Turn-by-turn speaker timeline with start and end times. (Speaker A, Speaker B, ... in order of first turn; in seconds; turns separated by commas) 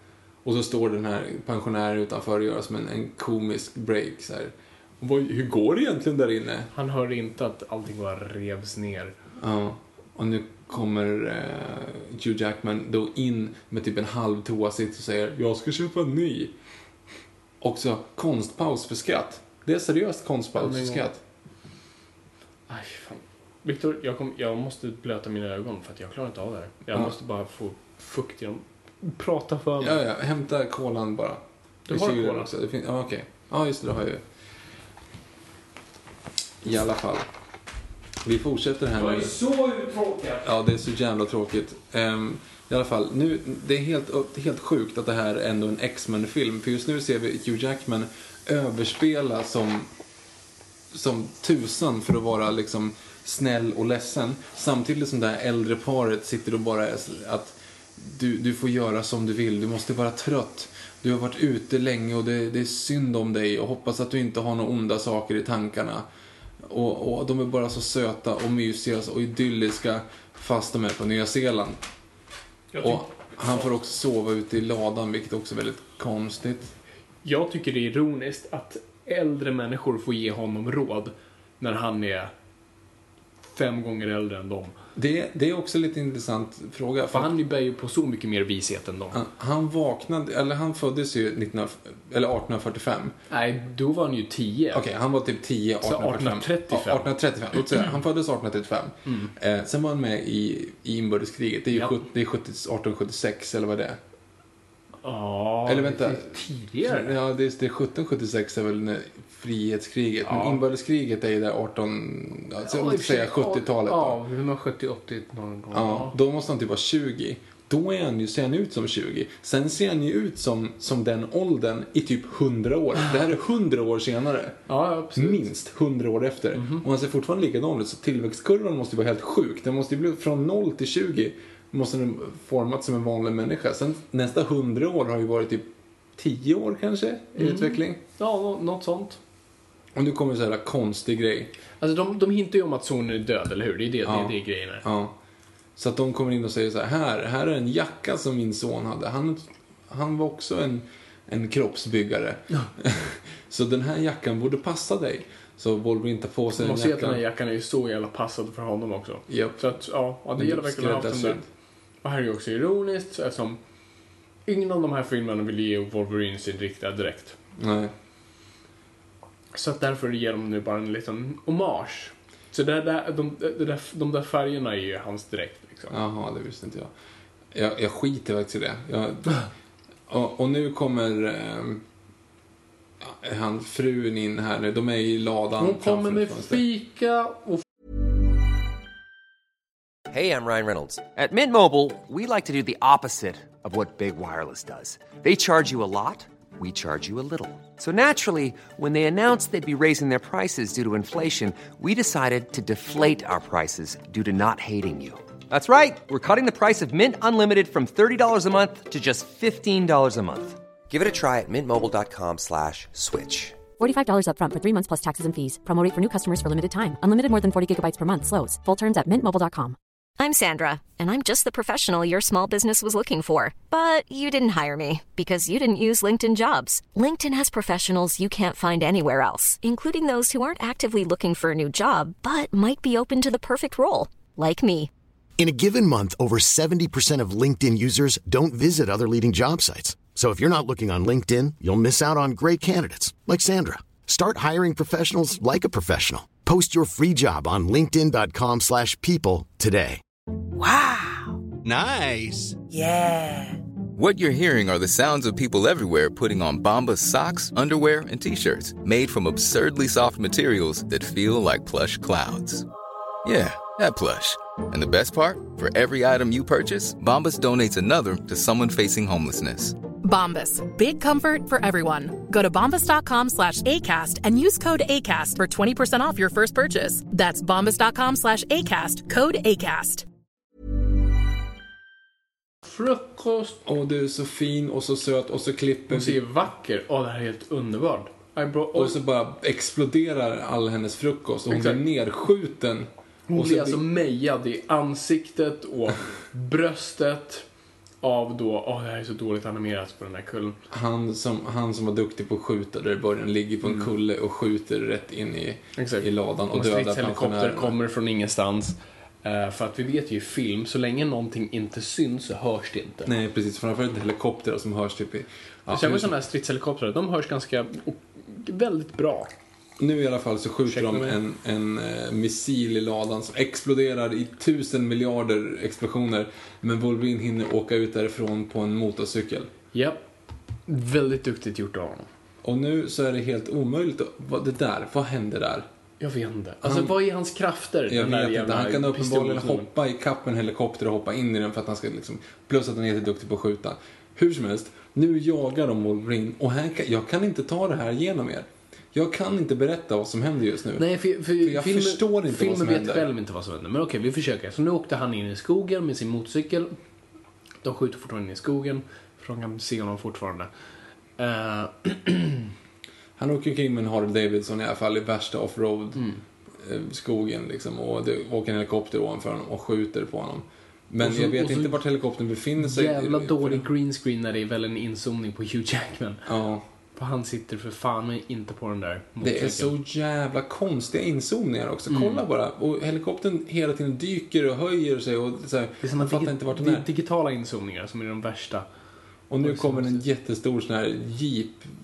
Speaker A: 0.4-6.7, Speaker B: 6.7-9.1, Speaker A: 9.4-16.5, Speaker A: 17.6-21.2, Speaker B: 20.6-21.0, Speaker B: 22.7-30.0, Speaker A: 29.8-34.2, Speaker B: 31.9-32.5, Speaker A: 36.6-37.3, Speaker A: 38.2-39.4, Speaker B: 38.9-40.5, Speaker A: 40.4-49.9, Speaker A: 50.9-66.0, Speaker A: 66.6-71.8, Speaker B: 72.7-73.7, Speaker A: 72.8-76.7, Speaker B: 77.2-82.3, Speaker B: 83.4-84.7, Speaker A: 84.9-87.3, Speaker B: 87.1-89.2, Speaker A: 89.1-93.1, Speaker B: 93.3-94.8, Speaker A: 94.7-104.0, Speaker B: 95.8-97.8, Speaker B: 99.0-99.3, Speaker B: 105.0-107.1, Speaker A: 105.7-114.2, Speaker B: 110.2-110.6, Speaker B: 112.6-116.1, Speaker A: 115.7-124.6, Speaker B: 124.7-125.5, Speaker A: 125.1-138.0, Speaker B: 126.5-126.8, Speaker B: 137.4-139.2, Speaker A: 139.9-141.5, Speaker B: 141.8-144.8, Speaker A: 144.0-145.2, Speaker A: 145.8-157.2, Speaker B: 156.6-161.4, Speaker A: 159.3-161.4, Speaker B: 162.0-163.6, Speaker B: 164.4-167.4, Speaker A: 167.6-167.9, Speaker B: 169.5-176.0, Speaker A: 175.9-176.9, Speaker A: 177.5-179.4, Speaker A: 180.1-181.8, Speaker A: 183.0-186.6, Speaker B: 185.6-187.6, Speaker C: 190.1-213.7, Speaker D: 213.8-219.8, Speaker E: 220.2-234.9, Speaker F: 235.4-250.0, Speaker G: 251.6-252.6, Speaker G: 253.9-262.6, Speaker G: 263.2-269.8, Speaker H: 270.0-280.0, Speaker B: 282.6-283.6, Speaker A: 283.6-286.2, Speaker B: 285.9-289.0, Speaker A: 288.7-293.8, Speaker B: 291.5-291.8, Speaker B: 293.3-297.4, Speaker B: 298.0-300.6, Speaker A: 300.7-307.8, Speaker B: 303.6-303.9, Speaker B: 305.8-313.1, Speaker A: 313.0-316.1, Speaker B: 315.7-319.3, Speaker A: 319.8-329.5, Speaker B: 320.7-321.2, Speaker B: 329.7-330.1, Speaker B: 330.7-332.1, Speaker A: 332.4-335.7, Speaker B: 336.0-339.7, Speaker A: 336.6-336.9, Speaker A: 337.9-353.1, Speaker B: 350.8-356.7, Speaker B: 357.6-360.5, Speaker B: 361.2-362.5, Speaker A: 363.2-366.0, Speaker B: 365.9-366.2, Speaker A: 366.6-373.7, Speaker B: 371.0-371.8, Speaker B: 372.6-376.2, Speaker A: 376.2-376.6, Speaker B: 376.9-379.7, Speaker A: 379.2-386.9, Speaker B: 381.9-382.2, Speaker B: 385.8-388.7, Speaker A: 389.3-391.7, Speaker B: 389.4-390.0